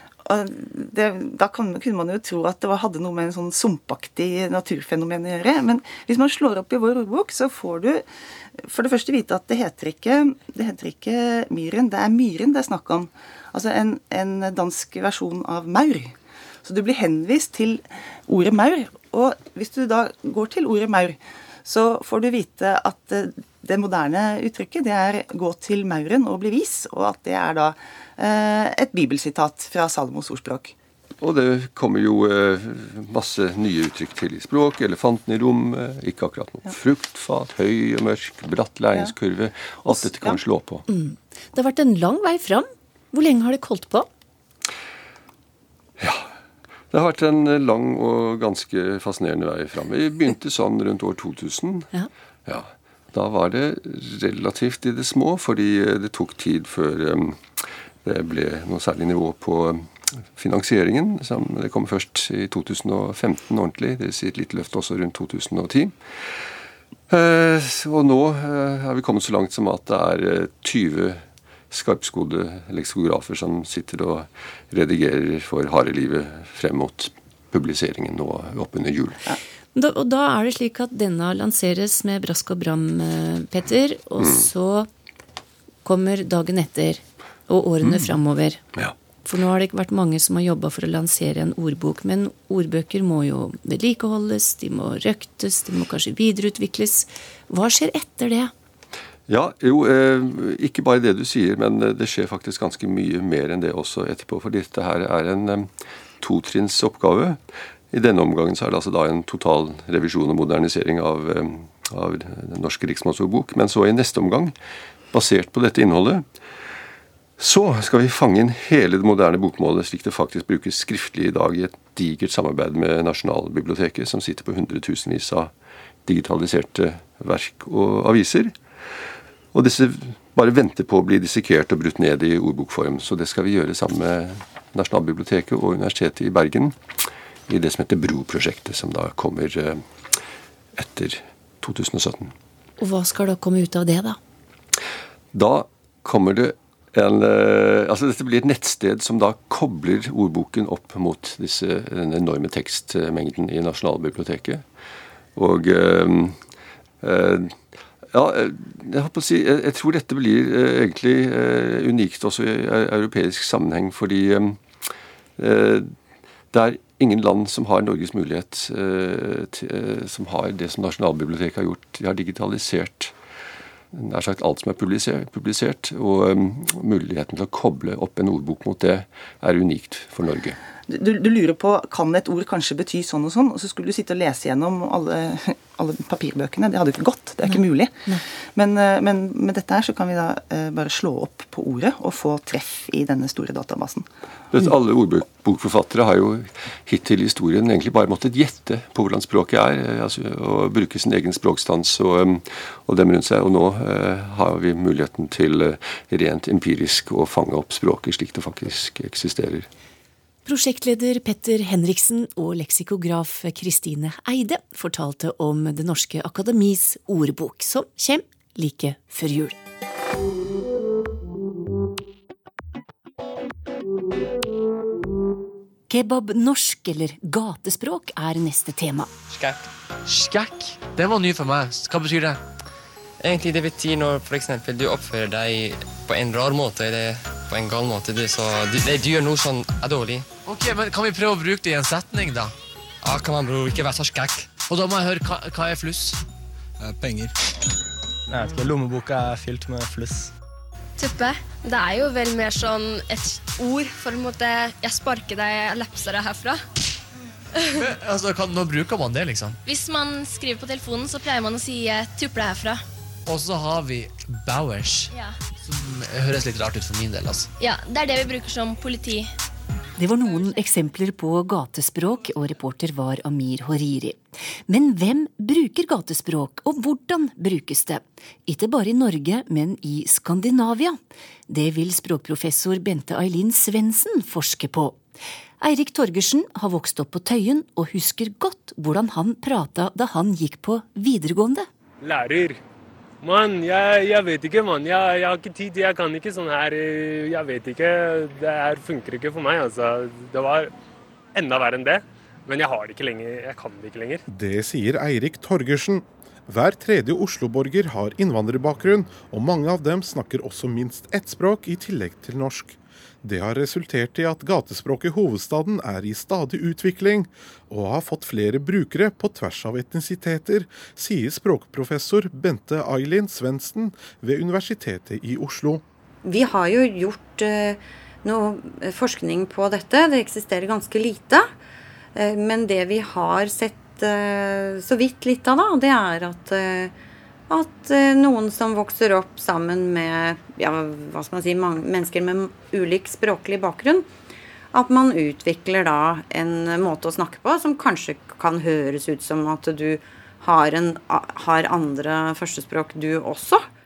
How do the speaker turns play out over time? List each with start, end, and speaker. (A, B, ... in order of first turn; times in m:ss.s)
0:00.2-0:08.1 A
0:08.6-0:30.7 A
0:31.2-0:40.8 B
0:39.9-0:40.4 A
0:40.9-0:44.1 C
0:46.0-0:46.3 B
0:46.9-0:51.9 B
0:52.5-1:06.3 B
1:07.1-1:19.2 B
1:19.8-1:24.9 C
1:24.2-1:24.5 B
1:25.8-1:28.7 C
1:27.8-1:28.2 B
1:29.2-1:38.5 C
1:39.3-1:45.7 B
1:46.2-1:47.4 B
1:47.9-1:54.6 B
1:55.1-1:56.3 B
1:57.4-2:05.5 B
2:06.1-2:16.8 B
2:17.5-2:20.2 B
2:20.8-2:22.3 B
2:22.8-2:24.2 C
2:25.3-2:34.6 B
2:35.4-2:36.4 B
2:37.0-2:37.6 B
2:38.1-2:45.9 B
2:46.5-2:53.1 B
2:53.9-3:00.6 B
3:00.9-3:14.1 A
3:07.4-3:08.2 C
3:14.5-3:29.7 B
3:30.4-3:39.6 C
3:45.9-3:49.1 C
3:49.3-3:49.6 D
3:50.1-3:52.4 E
3:53.2-4:00.2 D
4:00.4-4:02.5 E
4:03.0-4:04.5 D
4:04.7-4:06.2 E
4:06.8-4:07.3 E
4:08.3-4:10.3 F
4:11.0-4:16.6 G
4:17.6-4:17.8 G
4:17.8-4:19.6 E
4:19.6-4:22.8 G
4:23.3-4:27.5 E
4:27.6-4:29.3 G
4:30.0-4:45.0 C
4:45.6-4:51.7 C
4:52.0-4:52.6 H
4:53.2-5:00.7 H
5:01.3-5:04.2 H
5:04.3-5:25.8 I
5:26.2-5:31.5 J
5:32.2-5:36.9 J
5:37.5-5:44.1 J
5:44.7-5:53.7 J